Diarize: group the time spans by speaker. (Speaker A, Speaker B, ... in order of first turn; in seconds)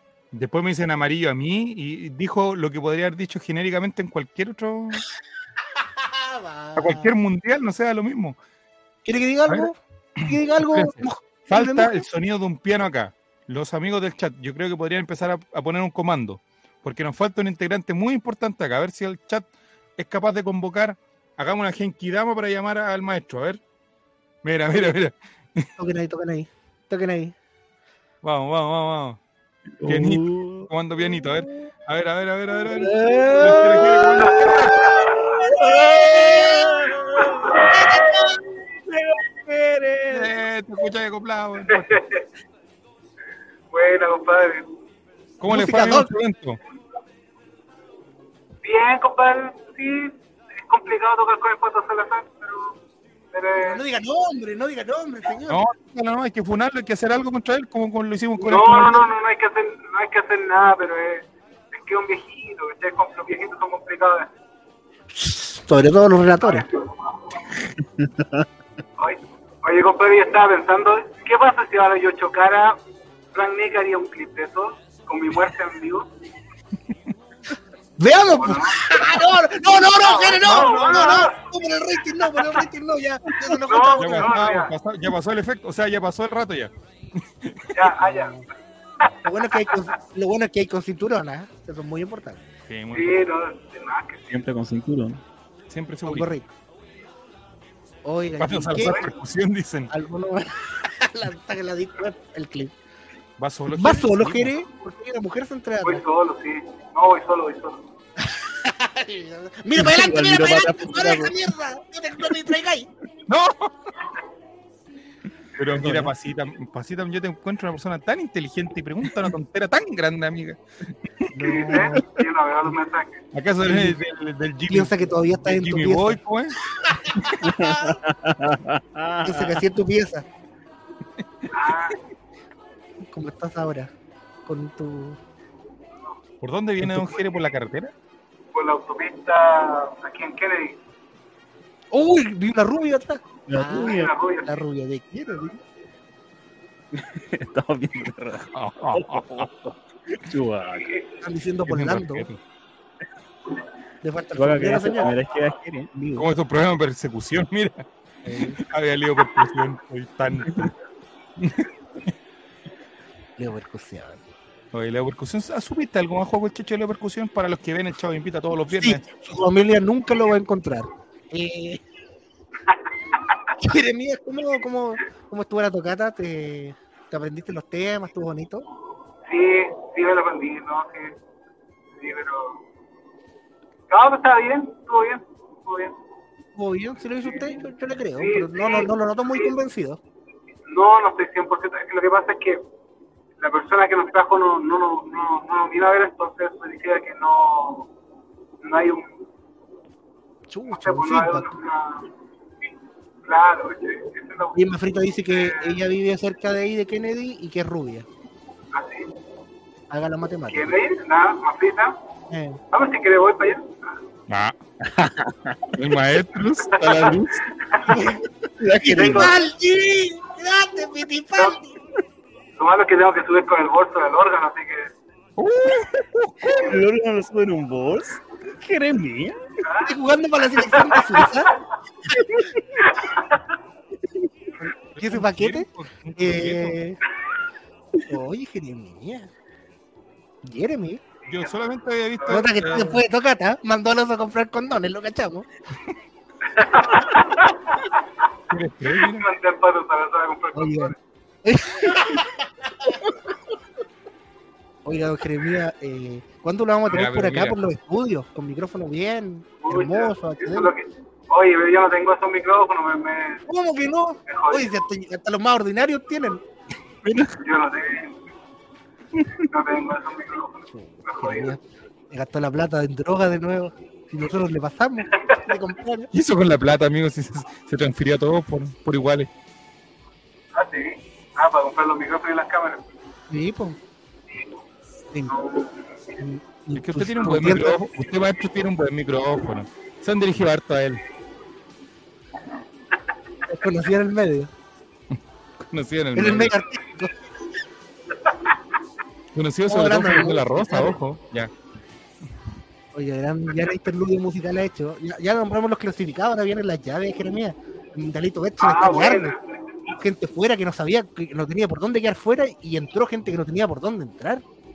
Speaker A: 0.3-5.1, 6.8-8.4, 10.2-23.6, 24.4-25.7, 28.2-29.2, 29.9-34.9, 40.1-42.0, 45.4-46.6, 55.5-59.0, 80.4-81.3, 84.0-86.7, 87.4-87.8, 92.7-93.2, 95.7-96.3, 98.4-99.9, 103.4-104.5, 113.3-113.7, 115.5-120.6, 123.3-126.6, 131.7-131.9, 136.4-137.9, 148.5-149.5, 151.7-152.4, 156.2-157.9, 158.6-160.7, 161.4-161.7, 164.7-169.0, 214.3-214.6, 215.7-217.4, 225.4-226.6, 234.9-236.8, 241.3-243.0, 248.5-249.3, 256.9-257.6, 276.1-279.3, 286.7-291.0, 295.7-296.6, 299.3-301.5
Speaker B: 5.8-7.1, 9.0-12.1, 25.8-27.3, 32.7-34.8, 36.1-36.5, 37.7-38.2, 45.5-46.1, 53.6-55.6, 65.1-66.7, 78.0-84.4, 88.0-88.4, 89.2-92.4, 96.0-96.5, 98.0-99.1, 99.9-102.7, 103.7-106.0, 108.2-112.9, 115.8-116.1, 121.3-122.0, 123.6-124.0, 124.7-126.2, 126.8-128.0, 129.2-130.2, 133.1-133.9, 134.4-135.2, 141.9-145.6, 151.2-152.3, 154.0-155.2, 155.9-156.3, 158.2-158.6, 163.4-164.2, 168.7-171.8, 173.6-178.6, 186.5-190.0, 200.5-201.5, 204.5-208.1, 209.9-210.8, 212.3-212.6, 217.9-218.2, 218.8-221.7, 229.8-231.5, 234.6-237.0, 238.1-239.3, 240.4-241.0, 242.3-245.5, 250.5-252.3, 252.8-253.2, 254.8-260.7, 263.5-266.4, 270.7-276.1, 283.3-283.8, 285.1-285.4, 286.2-287.8, 293.4-294.5, 296.1-297.2, 299.7-301.0, 302.9-309.4, 309.9-314.4
Speaker C: 29.8-31.5, 35.3-38.2, 38.9-40.3, 68.0-68.5, 94.2-95.2, 109.7-111.3, 127.2-129.6, 136.8-137.1, 143.5-144.1, 146.9-151.0, 154.3-155.9, 214.8-215.7, 218.6-219.3, 226.4-229.4
Speaker D: 34.2-35.2, 41.7-42.2, 43.7-44.7, 48.6-52.8, 53.3-53.8, 58.4-64.3, 66.4-67.1, 69.0-72.8, 73.3-76.1, 78.3-79.3, 80.0-81.3, 83.6-84.7, 87.7-88.4, 89.0-89.9, 92.9-94.2, 105.8-107.8, 121.4-123.2, 131.5-132.0, 138.5-140.8, 143.6-144.5, 150.8-151.0, 179.3-181.2, 182.0-182.6, 183.9-185.9, 188.2-189.5, 190.7-192.6, 193.4-197.9, 198.6-199.1, 200.7-202.1, 203.2-204.7, 205.2-205.8, 208.7-209.1, 210.5-212.0, 212.7-213.8, 216.7-218.1, 218.9-219.4, 222.6-224.9, 229.6-230.0, 230.6-231.5, 232.8-233.4, 246.5-248.0, 249.0-250.9, 252.0-252.2, 259.6-263.4, 264.3-264.7, 267.3-268.2, 269.3-271.5, 280.5-282.9, 285.3-285.7, 308.6-309.8